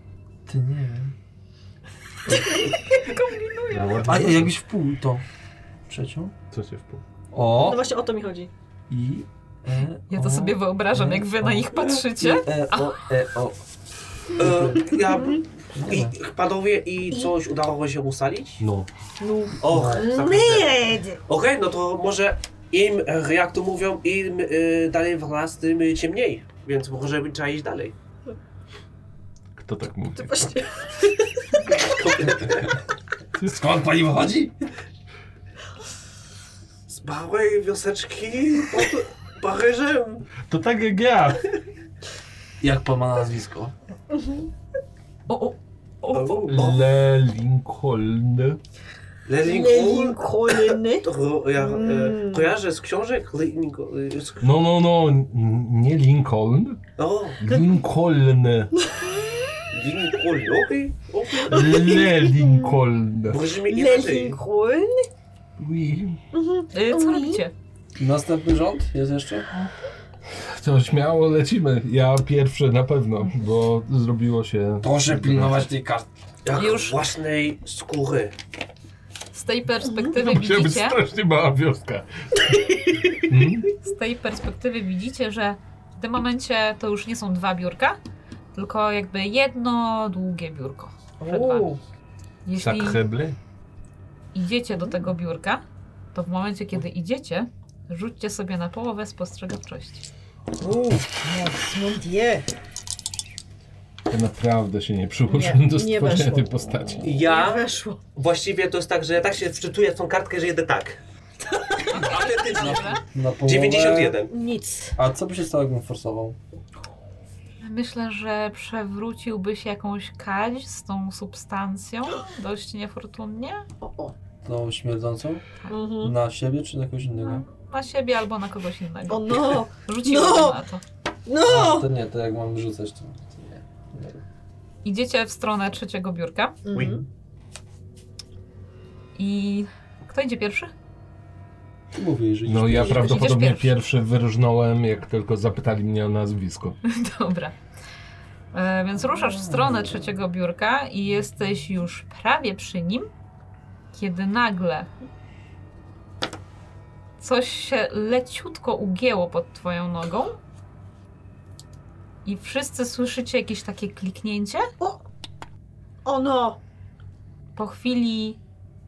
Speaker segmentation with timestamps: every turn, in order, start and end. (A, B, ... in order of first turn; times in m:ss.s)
0:00.4-0:01.1 A
0:02.3-0:02.6 A
0:02.3-0:04.3 B
0:03.7-0:04.5 C
0:04.0-0:05.2 A
0:05.9-0:06.3 A
0:06.5-0:07.0 C
0:07.3-0:07.9 A
0:07.5-0:08.5 B
0:08.9-0:13.6 A
0:10.1-0:13.0 D
0:14.4-0:15.0 A
0:14.4-0:18.6 E
0:15.1-0:15.4 B
0:15.7-0:16.1 A
0:18.6-0:18.9 C
0:19.2-0:21.2 B
0:19.6-0:27.9 E
0:19.6-0:20.0 A
0:29.6-0:30.5 C
0:30.1-0:31.6 B
0:31.7-0:32.8 E
0:33.4-0:34.6 A
0:36.9-0:40.3 E
0:40.4-0:41.4 C
0:42.6-0:43.7 A
0:44.1-0:44.5 B
0:45.3-0:46.4 D
0:46.1-0:46.8 E
0:46.5-0:48.6 C
0:49.3-0:54.5 E
0:49.4-0:52.5 B
0:54.4-0:56.8 C
0:57.0-0:57.4 E
0:57.4-0:58.7 C
0:58.8-0:59.6 B
0:59.7-1:01.8 E
1:01.5-1:02.8 B
1:01.5-1:03.4 C
1:03.3-1:04.4 E
1:03.6-1:05.1 B
1:05.6-1:06.2 C
1:06.3-1:07.4 B
1:06.7-1:07.5 D
1:08.0-1:09.5 A
1:10.3-1:15.7 C
1:14.8-1:16.1 A
1:16.4-1:18.3 E
1:16.5-1:17.0 D
1:19.3-1:21.0 D
1:20.1-1:22.1 C
1:22.5-1:23.2 B
1:23.3-1:23.7 C
1:23.8-1:28.0 D
1:28.5-1:31.7 D
1:31.2-1:31.8 B
1:32.4-1:33.0 D
1:32.5-1:33.4 C
1:34.3-1:35.6 D
1:36.1-1:40.1 D
1:40.6-1:42.5 B
1:44.1-1:47.1 C
1:45.2-1:48.0 B
1:47.0-1:51.0 E
1:51.6-1:52.0 B
1:51.9-1:54.3 E
1:51.9-1:53.0 D
1:52.4-1:54.2 A
1:54.3-1:55.0 B
1:55.0-1:56.4 A
1:57.6-2:03.7 D
2:03.8-2:04.1 B
2:04.4-2:05.4 A
2:05.7-2:06.1 B
2:06.0-2:07.4 A
2:07.2-2:10.8 D
2:09.1-2:10.6 B
2:11.2-2:11.9 B
2:11.4-2:14.2 A
2:14.8-2:16.6 D
2:16.6-2:17.0 B
2:16.7-2:17.0 E
2:19.2-2:20.7 D
2:21.9-2:23.1 A
2:22.4-2:26.8 C
2:22.8-2:23.7 D
2:26.8-2:27.6 D
2:28.5-2:33.1 D
2:33.9-2:34.9 D
2:37.2-2:40.4 D
2:42.2-2:44.7 D
2:46.0-2:46.6 B
2:47.6-2:48.4 D